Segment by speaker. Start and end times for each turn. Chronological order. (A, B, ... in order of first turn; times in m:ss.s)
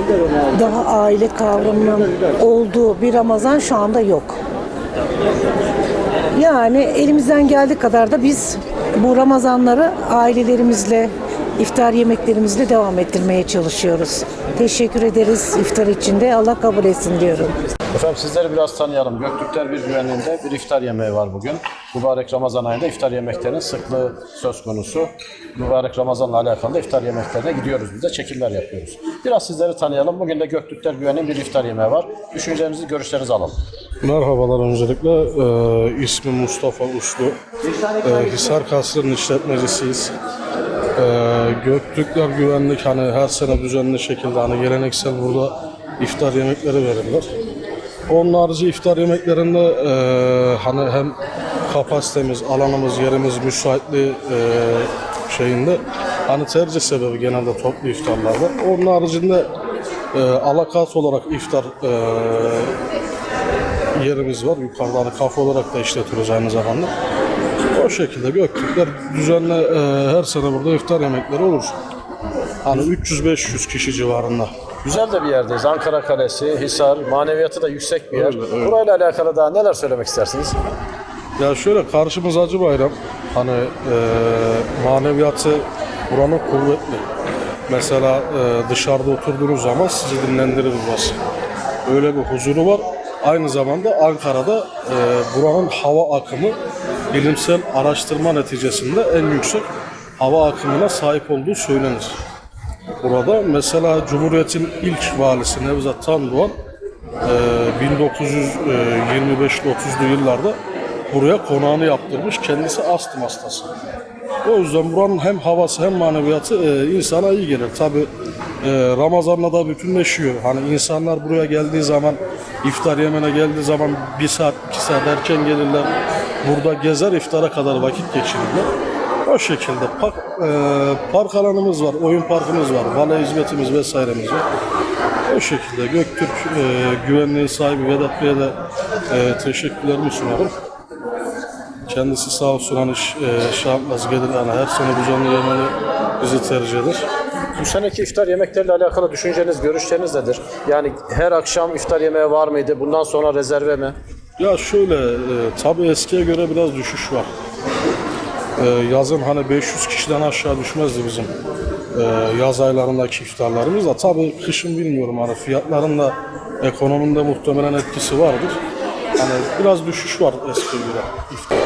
0:00.5-0:04.4 A
0:06.3-0:17.5 A
0:17.9-0:33.6 B
0:34.0-0:37.4 C
0:38.0-0:40.1 C
0:41.0-0:47.3 C
0:48.1-0:51.2 C
0:51.7-0:59.5 C
1:00.1-1:02.7 C
1:04.0-1:06.9 C
1:07.7-1:11.7 C
1:12.6-1:14.5 C
1:14.8-1:20.6 B
1:18.1-1:18.7 C
1:21.4-1:27.0 C
1:27.7-1:31.2 C
1:31.8-1:36.6 C
1:37.1-1:39.7 C
1:40.2-1:42.2 C
1:43.0-1:46.6 C
1:47.2-1:50.6 C
1:51.1-1:53.7 C
1:54.4-1:58.1 C
1:58.6-2:05.9 C
2:06.4-2:08.7 C
2:09.2-2:14.4 C
2:15.3-2:18.6 C
2:19.1-2:20.5 C
2:21.9-2:27.0 C
2:27.6-2:33.9 B
2:34.4-2:37.3 C
2:38.6-2:41.3 C
2:41.9-2:48.6 C
2:49.2-2:51.4 C